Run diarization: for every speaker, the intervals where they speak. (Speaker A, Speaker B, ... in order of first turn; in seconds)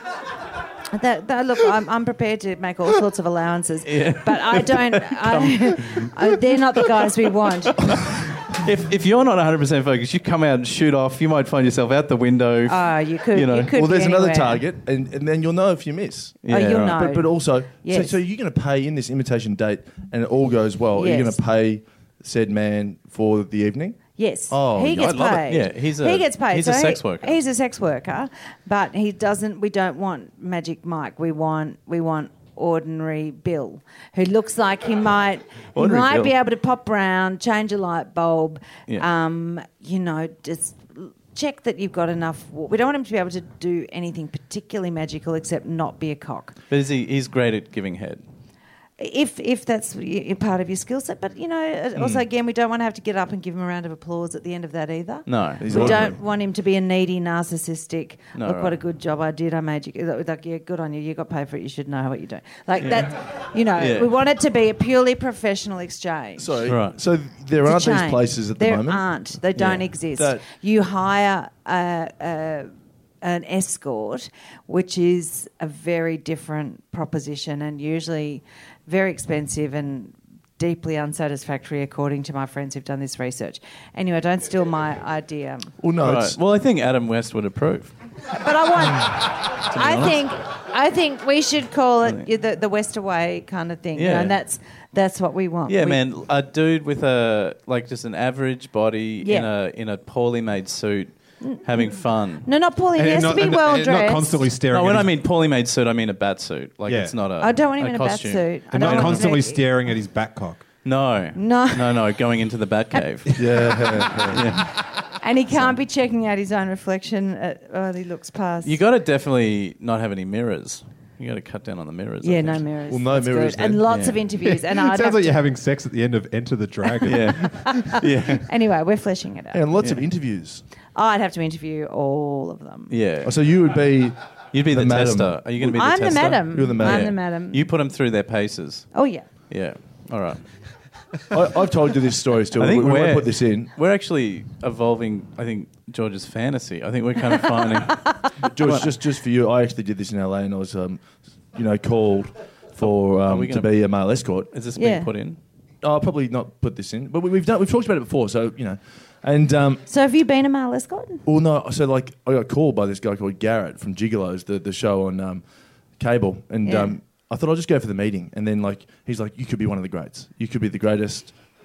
Speaker A: 0.9-7.8, 12.7-14.6, 16.5-18.2, 20.9-21.4, 24.2-46.5, 49.0-66.5, 67.6-72.7, 73.2-85.7, 88.3-96.0, 99.2-99.5, 101.4-104.5, 107.4-109.6, 111.3-111.9, 115.2-118.8, 122.2-125.4, 127.5-129.6, 130.9-132.9, 135.6-137.6, 138.9-139.2, 154.8-155.1, 159.9-161.2, 166.6-166.9
Speaker B: 3.9-6.1, 7.8-13.7, 16.4-17.0, 25.4-27.4, 35.7-36.3, 46.7-48.2, 55.3-56.0, 58.4-58.8, 62.8-63.2, 63.8-64.1, 66.7-67.0, 86.0-87.9, 89.7-90.2, 94.0-94.4, 95.7-102.5, 104.7-109.3, 110.8-113.5, 114.2-114.7, 118.6-122.6, 123.9-124.2, 127.0-128.4, 129.8-130.0, 132.9-133.4, 134.5-138.9, 139.5-140.4, 142.6-148.9, 152.8-153.7, 154.5-155.4
Speaker C: 13.7-25.4, 55.6-56.2, 66.4-70.4, 85.8-86.4, 113.3-114.5, 122.9-124.0, 129.5-130.6, 133.2-134.2, 134.7-135.5, 136.5-137.1, 141.3-143.7, 148.4-154.5, 155.8-159.8, 161.2-165.4, 166.0-171.4
Speaker D: 102.9-105.1, 106.9-107.1, 108.7-110.6, 124.7-127.9